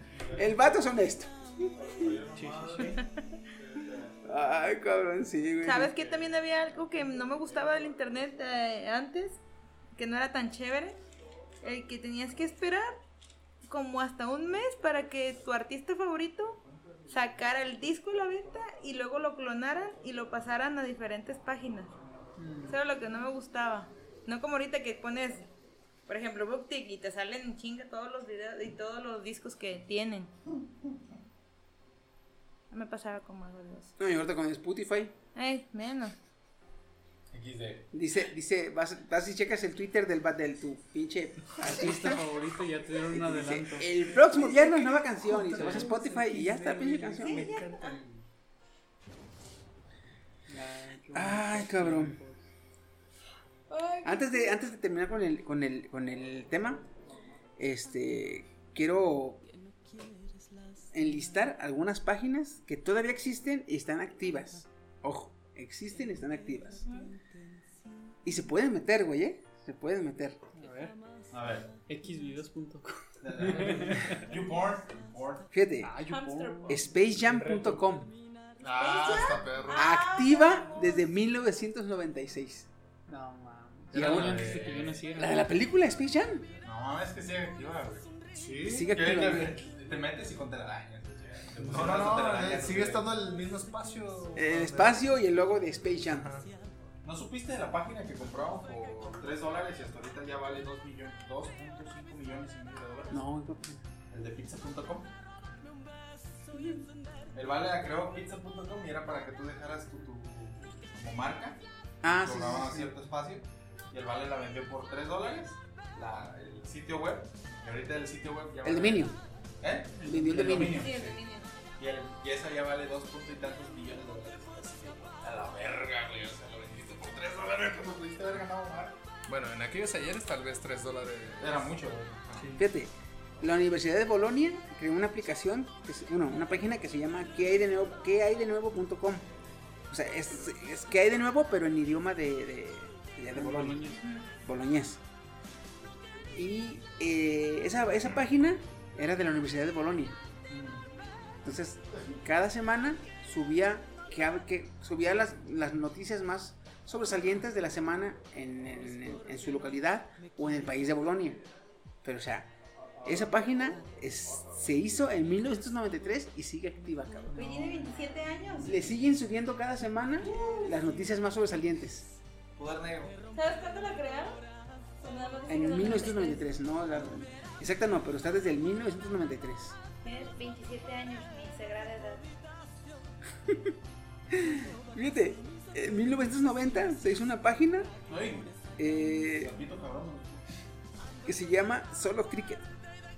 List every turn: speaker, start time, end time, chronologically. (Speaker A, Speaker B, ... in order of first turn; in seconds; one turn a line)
Speaker A: 0.2-0.6
Speaker B: 0.3-2.1
Speaker A: 1.8-3.0
Speaker C: 2.3-3.0
Speaker D: 2.8-3.1
Speaker A: 3.7-4.2
Speaker B: 4.2-5.9
Speaker D: 5.6-9.4
Speaker A: 6.0-6.3
Speaker D: 9.9-11.0
Speaker D: 11.6-13.0
Speaker D: 13.7-21.9
Speaker C: 22.4-22.8
Speaker D: 22.7-25.5
Speaker D: 26.1-30.3
Speaker D: 32.7-33.9
Speaker B: 34.0-35.1
Speaker D: 35.3-36.1
Speaker A: 37.3-37.9
Speaker B: 37.9-42.3
Speaker C: 41.6-48.2
Speaker B: 43.0-47.6
Speaker D: 47.2-48.0
Speaker C: 50.5-52.4
Speaker B: 51.1-52.1
Speaker D: 53.7-54.6
Speaker B: 54.0-56.8
Speaker B: 57.6-59.4
Speaker B: 60.9-66.9
Speaker D: 66.9-67.1
Speaker B: 68.2-70.4
Speaker C: 70.5-71.0
Speaker A: 71.3-71.7
Speaker C: 71.9-74.3
Speaker A: 73.2-75.5
Speaker B: 75.5-75.9
Speaker C: 75.8-77.9
Speaker D: 76.0-76.8
Speaker B: 76.7-78.1
Speaker E: 78.6-80.0
Speaker D: 78.8-81.0
Speaker B: 79.7-82.7
Speaker C: 83.1-85.5
Speaker E: 83.9-84.8
Speaker B: 83.9-86.5
Speaker A: 84.0-85.0
Speaker A: 86.6-88.2
Speaker E: 88.3-88.9
Speaker B: 88.6-89.5
Speaker A: 88.8-93.1
Speaker E: 91.6-95.0
Speaker B: 94.3-96.3
Speaker E: 96.1-96.5
Speaker A: 97.0-103.2
Speaker B: 103.1-103.8
Speaker A: 104.1-105.1
Speaker A: 107.3-121.2
Speaker B: 112.0-112.9
Speaker B: 118.6-119.2
Speaker B: 120.0-120.9
Speaker D: 120.5-121.5
Speaker A: 121.8-129.0
Speaker E: 129.3-131.7
Speaker A: 131.4-132.5
Speaker C: 132.3-132.7
Speaker B: 132.5-139.2
Speaker B: 139.9-143.8
Speaker C: 143.3-144.0
Speaker D: 143.9-144.3
Speaker B: 144.4-145.0
Speaker B: 146.3-150.2
Speaker A: 150.5-150.8
Speaker B: 151.4-161.4
Speaker B: 162.0-162.5
Speaker B: 163.0-167.7
Speaker D: 167.3-168.7
Speaker B: 168.6-172.1
Speaker D: 170.2-170.7
Speaker A: 172.6-173.2
Speaker D: 173.3-174.4
Speaker D: 175.0-176.5
Speaker B: 175.5-179.8
Speaker D: 180.0-182.3
Speaker B: 184.3-187.9
Speaker A: 188.1-188.6
Speaker B: 188.8-189.5
Speaker A: 189.3-190.4
Speaker B: 191.2-192.6